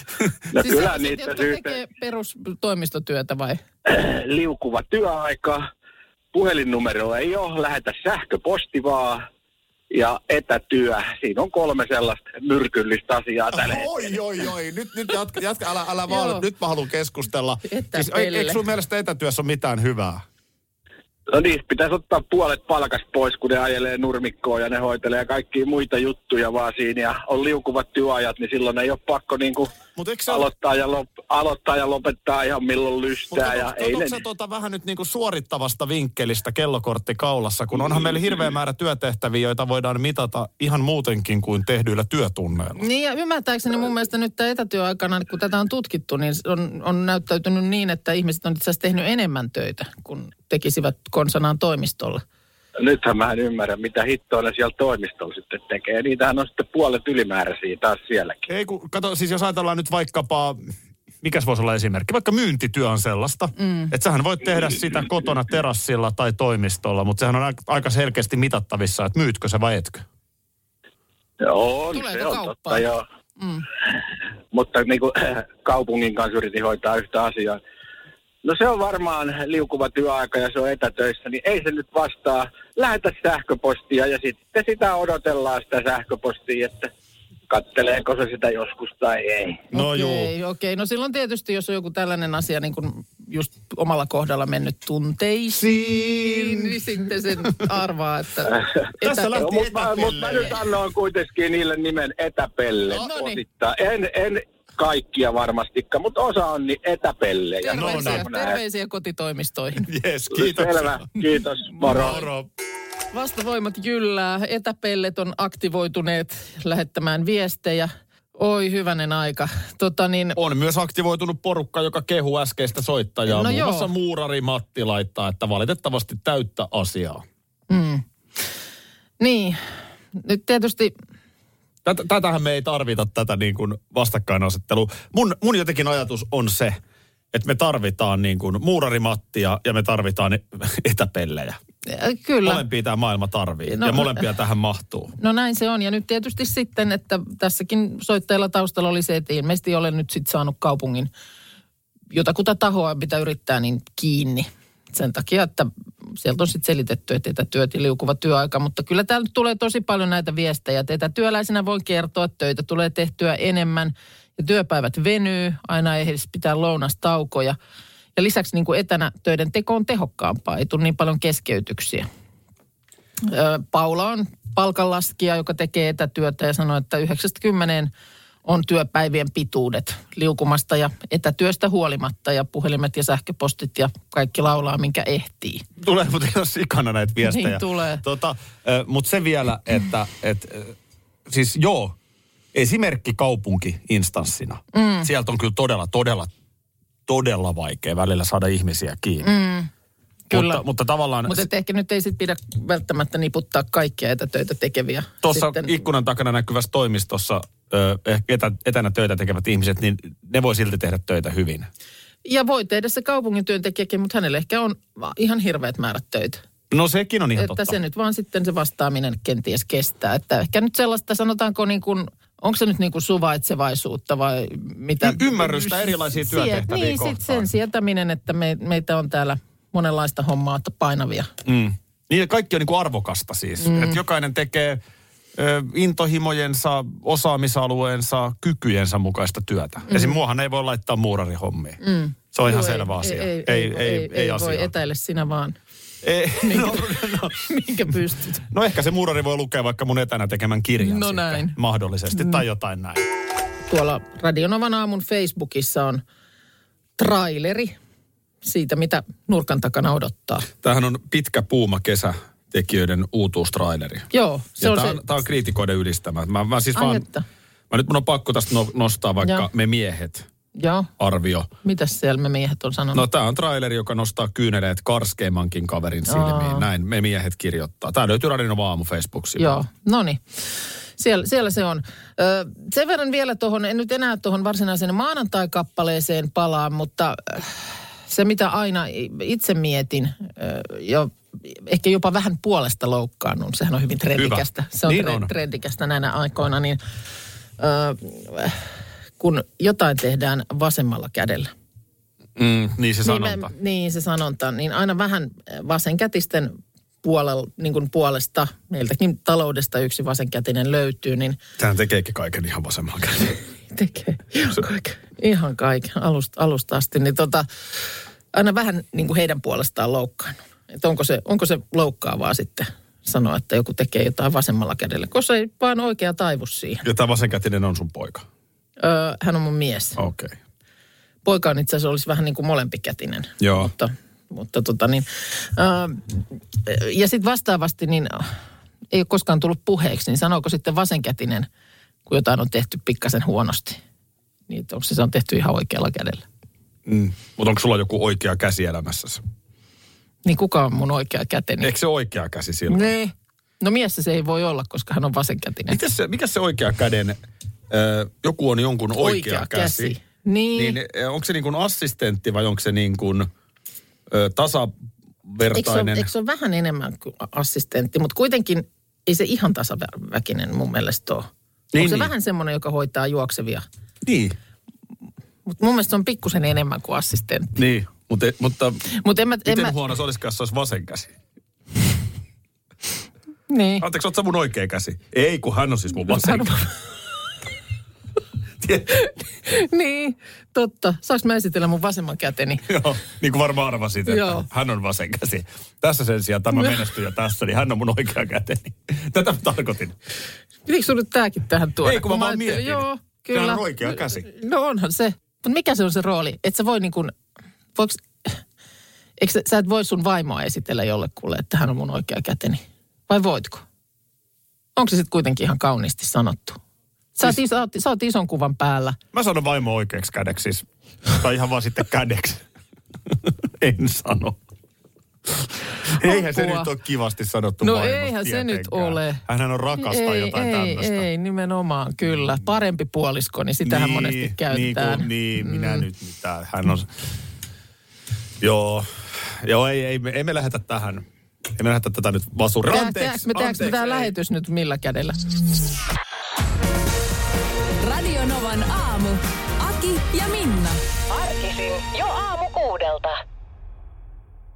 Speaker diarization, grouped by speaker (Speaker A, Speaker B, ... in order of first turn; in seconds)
Speaker A: 0.5-1.8, 3.9-5.6, 6.3-9.2, 9.9-13.9, 21.3-29.7, 30.3-34.2, 52.8-58.5, 71.4-73.0, 74.5-77.6, 78.4-86.9, 87.5-89.7, 99.3-108.6, 110.3-112.2
Speaker B: 0.6-3.6, 16.1-16.4, 17.7-18.6, 42.8-52.2, 63.6-63.9, 71.9-72.8, 73.4-73.7, 89.7-99.5, 102.9-103.4, 107.6-109.9, 111.8-112.3, 113.1-120.4, 123.3-123.9, 127.7-128.4, 129.2-129.6, 130.1-130.9, 141.9-142.6, 143.7-144.2, 145.2-151.1, 152.1-167.6, 168.2-172.1, 173.2-177.9, 178.4-185.6, 187.2-188.0, 194.7-195.1, 199.2-199.7, 200.3-200.6, 201.3-205.8, 212.2-216.4, 217.4-231.3, 233.6-234.0, 239.9-240.2, 241.8-245.6, 246.4-248.5, 250.8-251.6, 252.2-252.4, 253.7-256.0, 257.0-257.8, 258.4-260.5, 264.1-265.0, 266.7-267.2, 269.2-269.5, 270.5-270.9, 271.6-273.0, 276.1-276.6, 279.4-296.8, 297.6-298.6, 299.2-301.5, 303.0-311.4, 313.7-317.4, 318.3-326.8, 328.8-330.0, 331.2-338.3, 338.9-341.5, 342.1-343.8, 344.5-346.2, 350.2-351.7, 352.7-355.8, 358.9-360.8, 365.5-373.6, 375.4-377.6, 378.9-379.7, 383.5-383.8, 386.1-386.7, 388.9-392.7, 394.1-394.4, 400.6-407.1, 407.7-408.4, 409.2-413.6, 414.8-416.6, 417.1-419.0, 425.9-426.7, 427.6-429.2, 429.8-435.8, 442.6-445.5
Speaker C: 13.5-20.2, 29.9-30.5, 33.3-42.9, 58.5-60.6, 61.2-70.0, 89.7-90.3, 95.6-96.8, 99.0-100.6, 107.7-108.3, 109.8-111.0, 111.8-112.5, 120.3-127.2, 131.8-136.8, 137.3-141.6, 142.4-145.1, 185.8-190.7, 191.3-192.0, 192.5-196.3, 197.1-199.3, 200.3-201.5, 205.2-211.7, 216.7-217.8, 225.0-227.5, 231.4-234.8, 235.3-241.8, 242.3-244.7, 246.0-247.4, 248.5-253.0, 260.6-264.1, 264.6-267.1, 267.7-270.3, 271.0-271.5, 272.9-279.6, 294.2-295.3, 302.4-303.5, 311.6-313.4, 326.8-328.2, 330.0-330.4, 333.4-333.7, 346.9-349.2, 351.6-352.9, 355.7-357.2, 357.7-359.9, 360.5-363.3, 364.1-364.7, 365.2-366.1, 371.7-372.1, 374.0-374.4, 377.6-378.9, 379.4-381.1, 383.8-386.7, 388.6-388.9, 392.7-399.9, 401.8-404.3, 419.1-422.4, 423.1-424.4, 425.3-431.1, 433.6-436.9, 438.4-441.0, 441.6-444.1
Speaker D: 447.8-450.8
Speaker E: 451.1-453.2